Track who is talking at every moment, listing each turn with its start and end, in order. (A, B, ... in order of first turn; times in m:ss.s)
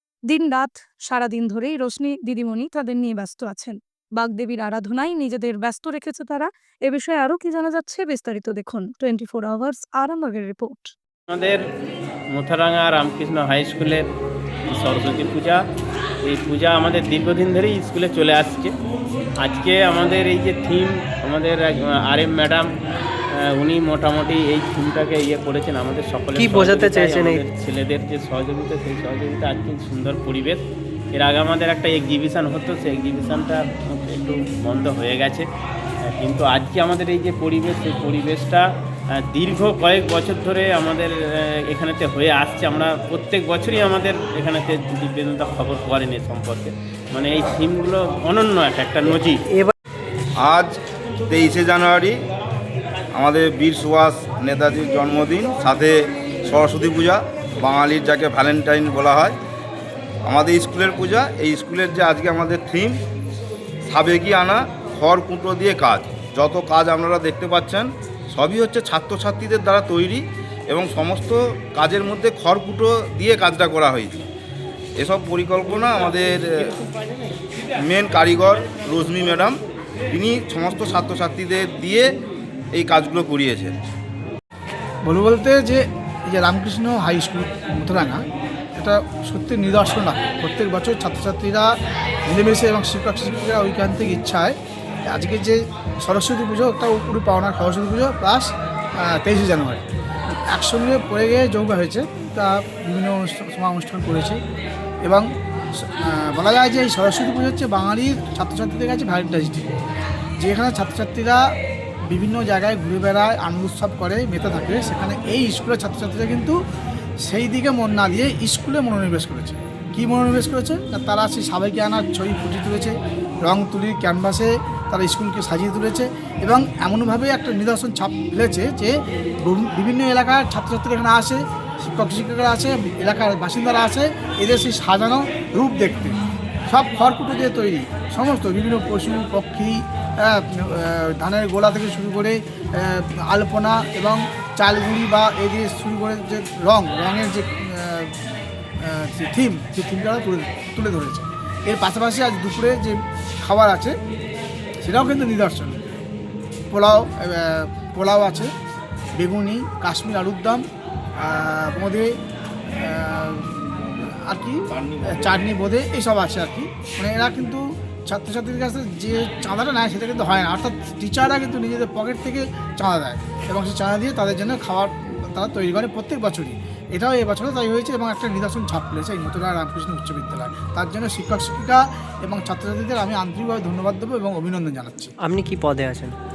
0:00.3-0:10.9 A
0:11.3-0:11.6 B
0:12.3-0:14.0 B
0:14.7-0:15.6 B
0:16.2-0:18.7 B
0:19.4-0:22.7 B
0:23.4-0:35.4 B
0:26.4-0:27.4 C
0:36.0-0:38.6 B
0:39.2-0:49.4 B
0:50.4-0:50.8 D
0:51.3-0:52.2 D
0:53.1-0:59.4 D
1:00.3-1:03.0 D
1:03.9-1:14.3 D
1:15.0-1:16.8 D
1:17.8-1:19.6 D
1:20.1-1:22.1 D
1:22.7-1:23.8 D
1:25.1-1:28.2 E
1:28.8-1:31.7 E
1:32.3-1:34.6 E
1:35.1-1:44.4 E
1:45.0-1:49.7 E
1:50.4-1:51.4 E
1:52.1-1:56.6 E
1:57.2-2:28.1 E
2:28.8-2:34.0 E
2:34.8-2:35.8 E
2:36.7-2:38.5 E
2:39.2-2:40.6 E
2:41.2-2:42.1 E
2:42.8-3:05.1 E
2:44.7-2:45.4 D
3:05.2-3:06.2 C